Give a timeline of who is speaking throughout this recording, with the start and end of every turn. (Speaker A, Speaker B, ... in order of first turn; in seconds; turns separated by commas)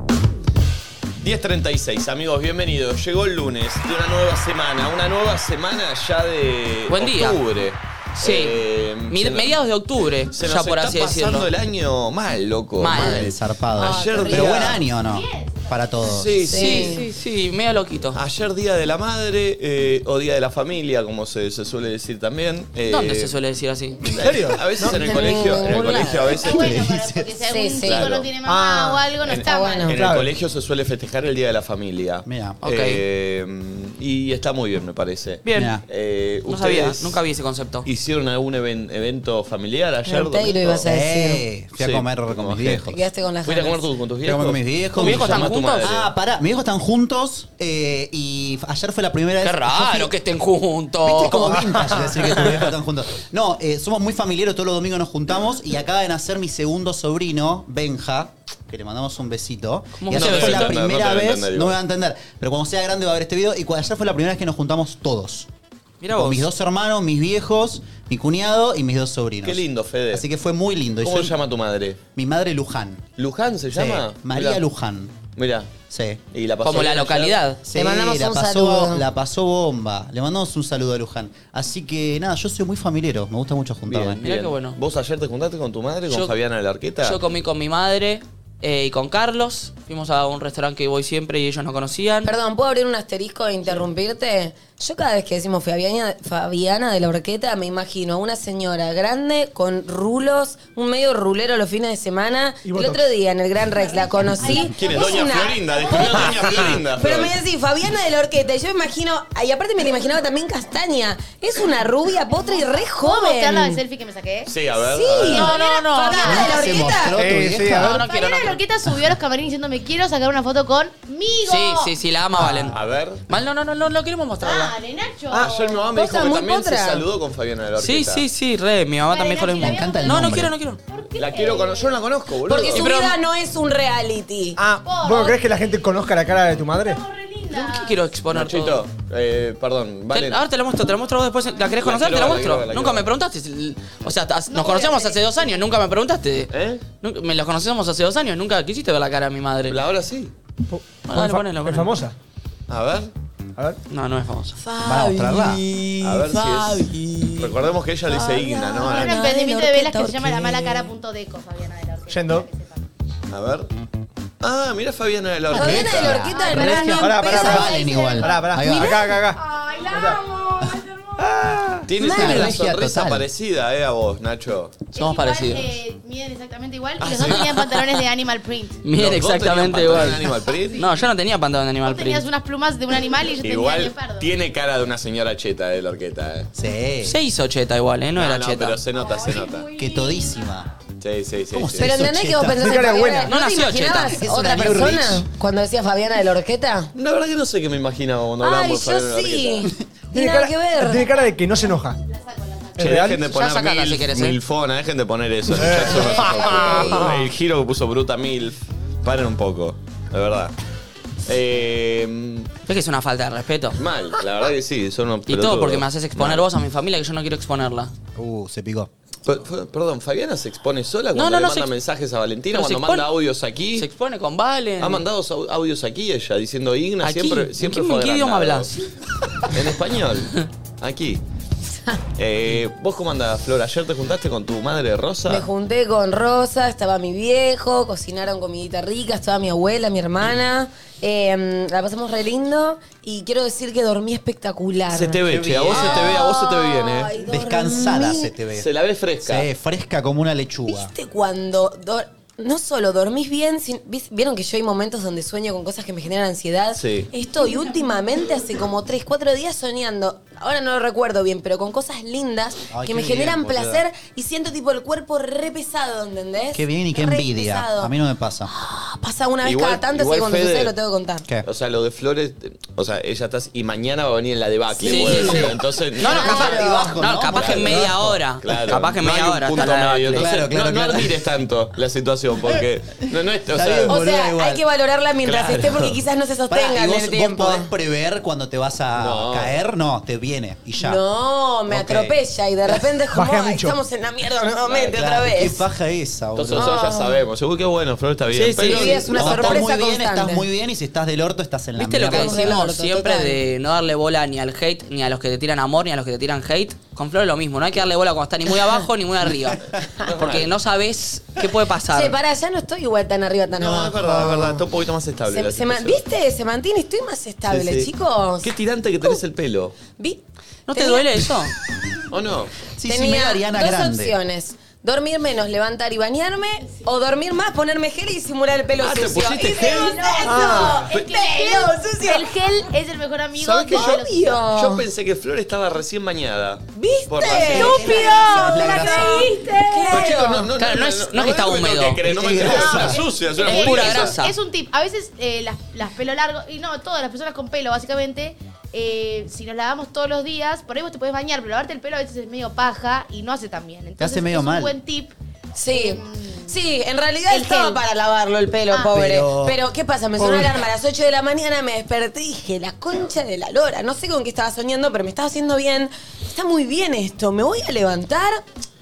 Speaker A: 1.2-9.5, Speaker B: 6.9-7.4, Speaker B: 8.2-8.6, Speaker B: 9.1-11.5, Speaker A: 10.3-14.8, Speaker B: 12.8-13.3, Speaker C: 12.9-16.4, Speaker D: 13.8-14.7, Speaker E: 15.0-16.2, Speaker A: 16.0-16.9, Speaker D: 16.4-17.1, Speaker B: 16.5-18.2, Speaker A: 18.1-23.3, Speaker B: 22.9-24.0, Speaker A: 24.0-26.7, Speaker F: 24.1-25.2, Speaker D: 24.8-26.4, Speaker E: 26.3-29.9, Speaker C: 26.4-27.3, Speaker D: 27.4-28.1, Speaker A: 27.8-28.3, Speaker F: 28.4-29.2, Speaker A: 29.2-37.2, Speaker D: 29.4-29.9, Speaker F: 29.9-30.2, Speaker C: 32.2-32.6, Speaker B: 32.6-33.0, Speaker B: 35.4-35.7, Speaker C: 35.5-35.8, Speaker B: 36.5-37.9, Speaker A: 37.8-40.8, Speaker D: 40.0-41.4, Speaker C: 40.8-43.0, Speaker A: 41.8-42.9, Speaker D: 42.9-43.9, Speaker A: 43.4-46.0, Speaker C: 44.2-50.1, Speaker B: 45.0-46.0, Speaker B: 49.4-52.5, Speaker C: 51.0-65.5, Speaker F: 51.5-52.2, Speaker B: 60.0-60.7, Speaker A: 60.1-61.8, Speaker B: 66.0-66.5, Speaker C: 66.1-71.3, Speaker A: 69.4-70.2, Speaker A: 71.0-72.0, Speaker C: 72.2-73.0, Speaker A: 73.2-74.6, Speaker C: 73.7-75.2, Speaker A: 75.3-75.7, Speaker C: 75.9-76.2, Speaker A: 76.3-77.4, Speaker B: 76.6-77.6, Speaker C: 77.6-84.2, Speaker D: 77.7-79.0, Speaker A: 83.9-87.2, Speaker B: 84.2-84.8, Speaker B: 87.0-92.3, Speaker D: 92.2-113.8, Speaker F: 102.6-103.1, Speaker E: 103.7-106.6, Speaker A: 104.7-107.3, Speaker F: 106.3-106.8, Speaker E: 112.3-114.5, Speaker A: 114.5-115.5, Speaker D: 114.9-117.2, Speaker E: 115.2-117.0, Speaker B: 115.3-116.2, Speaker C: 116.2-118.0, Speaker F: 117.1-118.0, Speaker B: 117.8-118.6, Speaker E: 117.9-121.9, Speaker B: 121.5-122.8, Speaker C: 122.3-122.7, Speaker A: 122.7-123.2, Speaker B: 123.3-124.7, Speaker E: 124.4-125.8, Speaker F: 125.3-125.6, Speaker A: 125.3-128.2, Speaker D: 125.9-127.0, Speaker B: 127.8-130.8, Speaker E: 129.1-132.0, Speaker C: 129.6-130.5, Speaker A: 131.2-132.9, Speaker D: 132.5-134.6, Speaker B: 132.7-133.2, Speaker F: 134.6-137.0, Speaker E: 134.8-135.4, Speaker E: 136.7-138.0, Speaker B: 137.5-138.8, Speaker A: 138.3-140.4, Speaker B: 140.1-146.5, Speaker A: 141.8-143.1, Speaker E: 144.5-145.4, Speaker A: 146.5-146.8, Speaker B: 147.0-149.8, Speaker A: 149.7-150.3, Speaker F: 150.7-152.1, Speaker B: 151.1-151.9, Speaker A: 152.7-153.1, Speaker B: 153.9-154.6, Speaker D: 154.6-157.4, Speaker C: 154.8-155.6, Speaker A: 156.0-159.3, Speaker D: 158.1-160.9, Speaker E: 158.8-162.8, Speaker F: 162.1-162.5, Speaker A: 163.3-163.7, Speaker A: 164.4-166.3, Speaker C: 165.5-169.0, Speaker D: 165.5-168.2, Speaker E: 166.3-166.9, Speaker F: 166.7-170.2, Speaker E: 167.7-168.5, Speaker E: 169.3-171.3, Speaker F: 171.2-171.8, Speaker A: 171.9-174.8, Speaker C: 171.9-173.2, Speaker D: 172.0-172.6, Speaker B: 174.9-175.8, Speaker E: 174.9-178.8, Speaker A: 177.0-177.4, Speaker B: 177.2-177.8, Speaker B: 178.8-182.3, Speaker A: 178.9-180.9, Speaker E: 181.8-184.3, Speaker A: 183.4-186.5, Speaker C: 186.5-187.2, Speaker B: 187.0-188.8, Speaker A: 188.2-189.7, Speaker E: 189.0-190.2, Speaker C: 189.8-190.7, Speaker A: 191.0-191.9, Speaker C: 191.5-192.8, Speaker D: 191.8-196.9, Speaker F: 192.5-193.3, Speaker B: 193.3-194.2, Speaker C: 194.0-195.2, Speaker A: 196.9-199.7, Speaker D: 198.4-201.1, Speaker F: 200.1-202.0, Speaker E: 202.1-202.8, Speaker F: 202.8-203.2, Speaker A: 202.8-210.5, Speaker B: 203.3-204.4, Speaker F: 205.5-207.1, Speaker E: 205.8-207.1, Speaker D: 206.1-207.2, Speaker A: 211.2-212.5, Speaker B: 212.7-213.8, Speaker A: 213.8-216.5, Speaker B: 215.3-217.9, Speaker C: 218.2-218.9, Speaker A: 219.2-223.8, Speaker B: 221.1-221.7, Speaker B: 222.5-223.1, Speaker B: 223.8-225.0, Speaker A: 224.8-228.7, Speaker B: 227.0-228.7, Speaker A: 229.5-231.2, Speaker A: 232.2-235.5, Speaker D: 235.3-248.3, Speaker A: 244.9-247.1, Speaker C: 245.2-246.2, Speaker C: 247.2-248.7, Speaker A: 248.5-249.5, Speaker C: 249.2-250.9, Speaker D: 250.7-267.9, Speaker A: 256.8-257.1, Speaker C: 262.7-263.8, Speaker C: 266.5-268.5, Speaker D: 268.5-271.2, Speaker A: 269.4-270.7, Speaker A: 271.4-276.7, Speaker D: 274.8-275.5, Speaker B: 274.8-280.3, Speaker D: 276.0-277.0, Speaker C: 276.0-278.2, Speaker A: 277.4-284.0, Speaker C: 280.1-281.1, Speaker C: 283.5-284.6, Speaker D: 283.9-287.7, Speaker A: 285.2-286.0, Speaker C: 286.5-291.0, Speaker A: 289.0-289.6, Speaker D: 290.8-295.6, Speaker C: 291.7-292.1, Speaker F: 293.1-293.8, Speaker C: 294.8-296.8, Speaker A: 296.3-299.5, Speaker D: 296.5-297.2, Speaker B: 298.3-299.1, Speaker D: 298.6-300.4, Speaker C: 299.1-302.6, Speaker B: 301.8-312.1, Speaker D: 302.1-303.4, Speaker A: 310.1-310.5, Speaker D: 311.9-314.6, Speaker A: 313.6-316.0, Speaker D: 315.3-318.5, Speaker A: 317.5-317.9, Speaker A: 318.4-319.8, Speaker B: 320.7-321.5, Speaker D: 320.7-321.3, Speaker A: 322.1-322.5, Speaker C: 322.8-324.1, Speaker D: 322.9-332.3, Speaker A: 328.8-330.1, Speaker E: 329.5-334.5, Speaker F: 330.2-330.9, Speaker D: 333.4-334.9, Speaker A: 334.5-338.1, Speaker D: 336.8-340.5, Speaker C: 337.4-339.3, Speaker E: 337.5-340.1, Speaker A: 339.9-344.1, Speaker B: 340.6-342.0, Speaker C: 342.0-343.0, Speaker E: 342.3-355.1, Speaker B: 343.4-344.3, Speaker C: 354.0-354.7, Speaker D: 355.5-368.4, Speaker E: 355.7-356.5, Speaker E: 357.3-357.8, Speaker E: 358.7-359.0, Speaker C: 358.8-359.6, Speaker C: 360.2-360.5